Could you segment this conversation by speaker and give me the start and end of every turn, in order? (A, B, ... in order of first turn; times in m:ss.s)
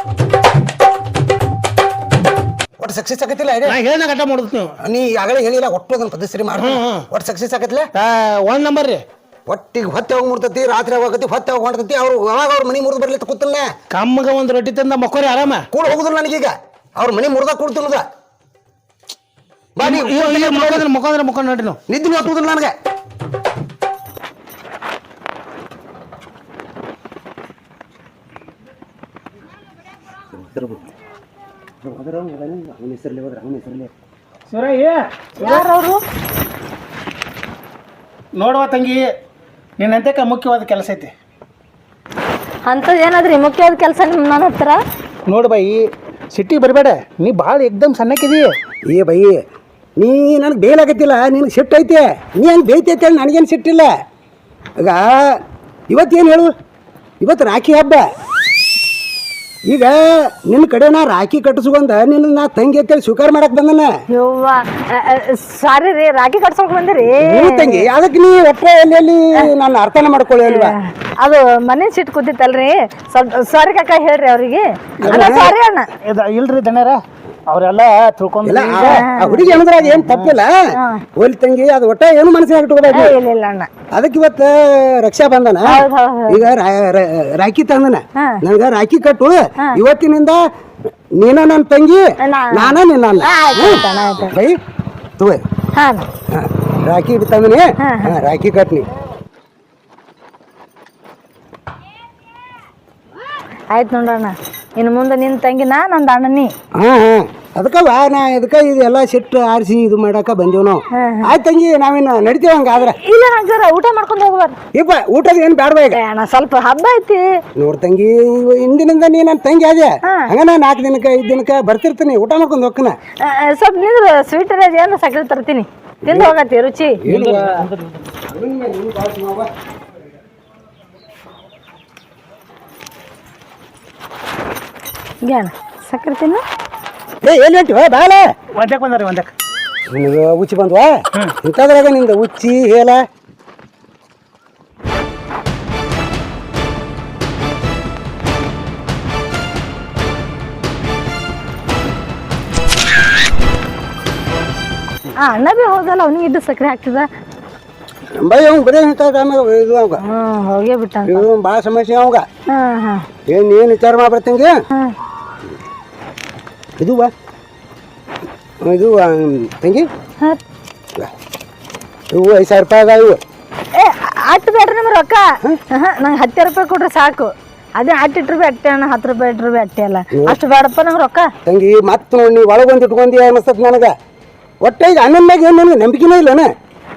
0:02.8-0:03.8 A
0:03.6-0:04.8 B
0:04.8-0:07.9 A
0:06.6-0:07.0 B
0:07.9-0:09.0 B
0:09.5-0:13.7 A
0:13.9-0:15.6 B
0:15.7-0:18.0 A
0:19.8-0:20.9 A
0:19.8-0:21.8 B
0:21.9-0:22.7 A
0:30.3-0:30.9 A
0:31.8-0:33.9 A
0:34.5-0:35.6 B
0:35.4-0:36.0 C
0:38.4-0:39.0 B
0:39.8-0:41.1 B
0:42.7-0:44.8 C
0:45.3-0:48.5 B
0:48.9-0:49.4 A
0:50.0-0:53.9 A
0:54.8-0:55.4 A
0:55.9-0:56.5 A
0:57.2-0:58.0 A
0:59.7-1:03.9 A
1:04.1-1:07.9 C
1:07.0-1:10.8 A
1:10.5-1:15.9 C
1:15.0-1:15.5 A
1:16.0-1:19.0 B
1:18.4-1:20.6 A
1:18.6-1:19.6 C
1:19.8-1:20.3 B
1:20.7-1:21.0 C
1:21.2-1:23.2 A
1:22.9-1:23.7 C
1:23.9-1:30.4 A
1:25.6-1:26.5 C
1:31.2-1:34.6 A
1:32.2-1:34.3 C
1:35.8-1:36.1 C
1:36.3-1:38.9 A
1:37.8-1:38.1 C
1:43.7-1:46.5 C
1:46.8-1:53.0 A
1:51.0-1:51.4 C
1:53.0-1:54.6 C
1:54.7-1:56.0 A
1:55.9-1:57.2 C
1:57.6-2:02.9 A
2:03.2-2:07.0 C
2:06.1-2:06.3 A
2:07.0-2:09.5 A
2:07.1-2:08.0 B
2:15.2-2:16.4 C
2:17.2-2:18.3 A
2:18.6-2:19.3 B
2:19.9-2:23.0 A
2:35.2-2:37.1 C
2:38.2-2:40.0 A
2:40.0-2:41.2 C
2:41.0-2:42.2 A
2:42.5-2:43.0 C
2:43.3-2:44.5 A
2:46.8-2:47.1 A
2:48.6-2:49.9 A
2:52.1-2:53.2 A
2:53.8-3:01.3 C
3:00.1-3:00.4 A
3:01.4-3:03.9 A
3:04.6-3:06.5 A